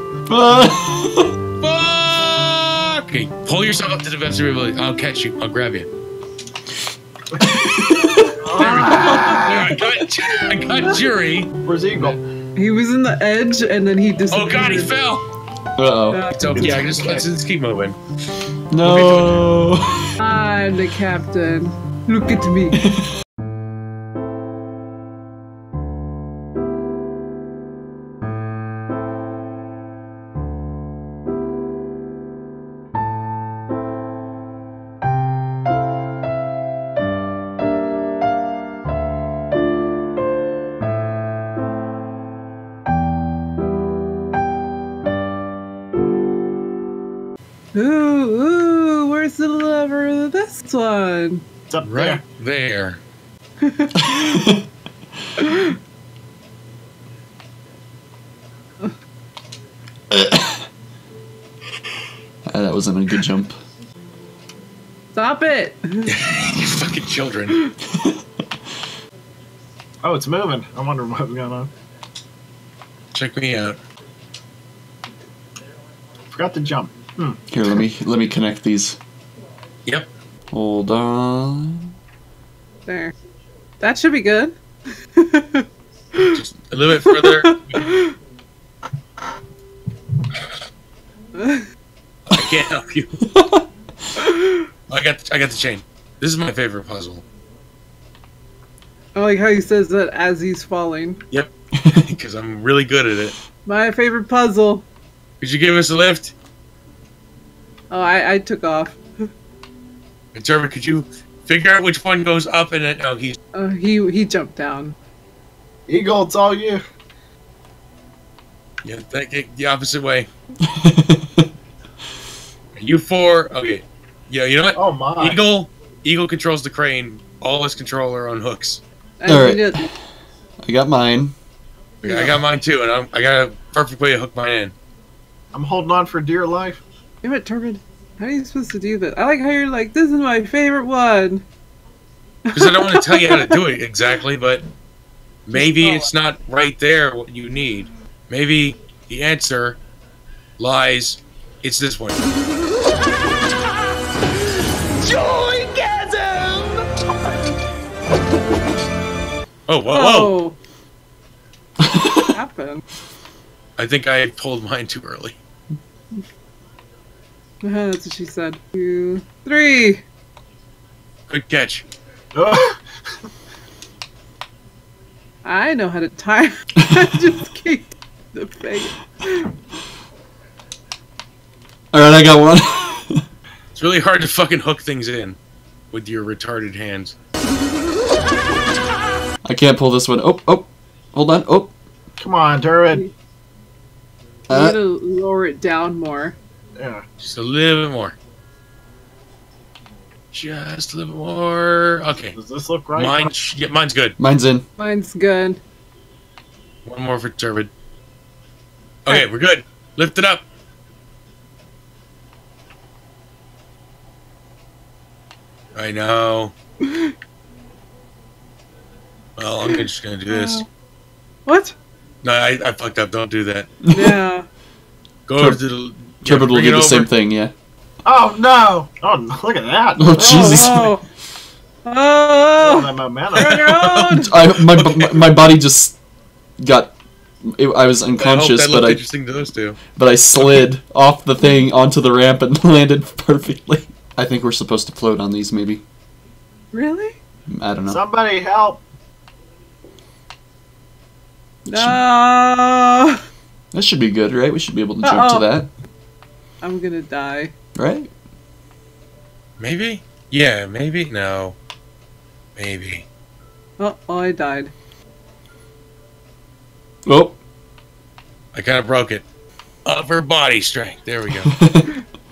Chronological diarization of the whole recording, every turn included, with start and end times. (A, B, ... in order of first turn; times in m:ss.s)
0:00.3-0:01.3 A
0:01.6-0:05.9 B
0:07.4-0:09.2 A
0:08.3-0:09.7 C
0:08.5-0:11.5 B
0:09.0-0:09.4 D
0:11.6-0:12.2 C
0:12.6-0:14.9 D
0:14.3-0:15.2 B
0:15.8-0:16.8 A
0:16.1-0:16.7 D
0:16.3-0:18.0 B
0:16.6-0:17.2 C
0:18.7-0:20.1 A
0:18.8-0:19.5 B
0:20.2-0:22.8 D
0:47.7-0:51.4 D
0:51.7-0:52.2 C
0:51.8-0:53.0 B
0:53.6-0:54.4 D
0:54.0-0:54.6 A
0:55.4-0:55.8 D
1:00.1-1:00.7 A
1:02.5-1:03.6 A
1:05.1-1:06.1 D
1:06.1-1:07.6 B
1:07.8-1:08.2 A
1:10.0-1:11.7 C
1:13.1-1:13.8 B
1:16.3-1:17.4 C
1:17.5-1:19.0 A
1:20.5-1:21.9 A
1:22.9-1:23.1 D
1:23.8-1:24.6 D
1:25.2-1:25.7 D
1:26.2-1:27.9 B
1:27.0-1:28.2 D
1:31.3-1:31.7 D
1:32.3-1:33.1 B
1:33.2-1:33.7 A
1:34.2-1:34.7 D
1:34.9-1:37.2 B
1:39.1-1:41.2 D
1:41.3-1:43.4 B
1:43.7-1:44.9 D
1:45.4-1:46.3 B
1:47.9-1:49.3 D
1:50.3-1:53.4 B
1:53.5-1:55.0 D
1:55.9-1:56.8 C
1:58.8-2:00.3 B
2:00.6-2:01.5 A
2:02.8-2:08.8 B
2:04.7-2:05.4 C
2:09.2-2:09.9 D
2:09.2-2:09.8 A
2:10.6-2:11.3 A
2:12.0-2:14.7 B
2:12.0-2:12.3 D
2:15.5-2:16.8 C
2:17.2-2:21.4 D
2:22.5-2:23.6 D
2:22.5-2:24.7 B
2:25.4-2:29.8 B
2:25.5-2:26.1 D
2:30.6-2:32.2 B
2:35.1-2:36.7 C
2:35.9-2:36.2 D
2:39.7-2:40.3 B
2:39.9-2:40.6 D
2:41.8-2:42.3 A
2:42.3-2:42.8 D
2:43.8-2:45.4 B
2:47.6-2:50.0 D
2:51.3-2:51.8 B
2:52.3-2:52.8 C
2:55.4-2:59.5 D
3:01.9-3:03.2 A
3:03.7-3:05.4 B
3:05.9-3:07.1 B
3:09.4-3:11.7 A
3:12.2-3:13.0 C
3:14.5-3:14.8 A
3:14.5-3:16.4 D
3:16.8-3:17.0 C
3:17.2-3:18.2 B
3:20.3-3:22.4 B
3:22.3-3:23.3 C
3:22.9-3:24.2 B
3:24.2-3:24.6 A
3:24.8-3:25.6 D
3:26.8-3:27.7 B
3:29.0-3:30.4 B
3:35.7-3:36.5 B
3:36.8-3:37.1 D
3:39.4-3:40.6 B
3:39.7-3:40.6 D
3:41.4-3:41.7 D
3:42.2-3:43.7 B
3:43.9-3:44.2 A
3:43.9-3:44.4 D
3:45.3-3:47.1 B
3:46.2-3:47.5 A
3:48.0-3:50.7 C
3:50.0-3:50.9 A
3:50.2-3:51.0 D
3:51.8-3:54.3 D
3:52.6-3:53.8 C
3:53.3-3:55.2 B
3:54.1-3:56.0 A
3:56.6-3:59.0 A
3:58.2-3:59.8 B
3:59.9-4:05.8 A
4:01.4-4:01.6 D
4:06.7-4:07.2 D
4:07.5-4:08.0 A
4:07.9-4:08.8 C
4:11.6-4:13.2 D
4:11.7-4:12.0 A
4:13.7-4:15.7 A
4:15.0-4:15.5 D
4:16.6-4:17.5 D
4:17.8-4:18.1 A
4:19.6-4:21.6 B
4:22.6-4:23.1 B
4:23.8-4:24.7 D
4:27.1-4:27.4 A
4:28.5-4:29.2 B
4:29.8-4:31.5 B
4:31.4-4:31.9 A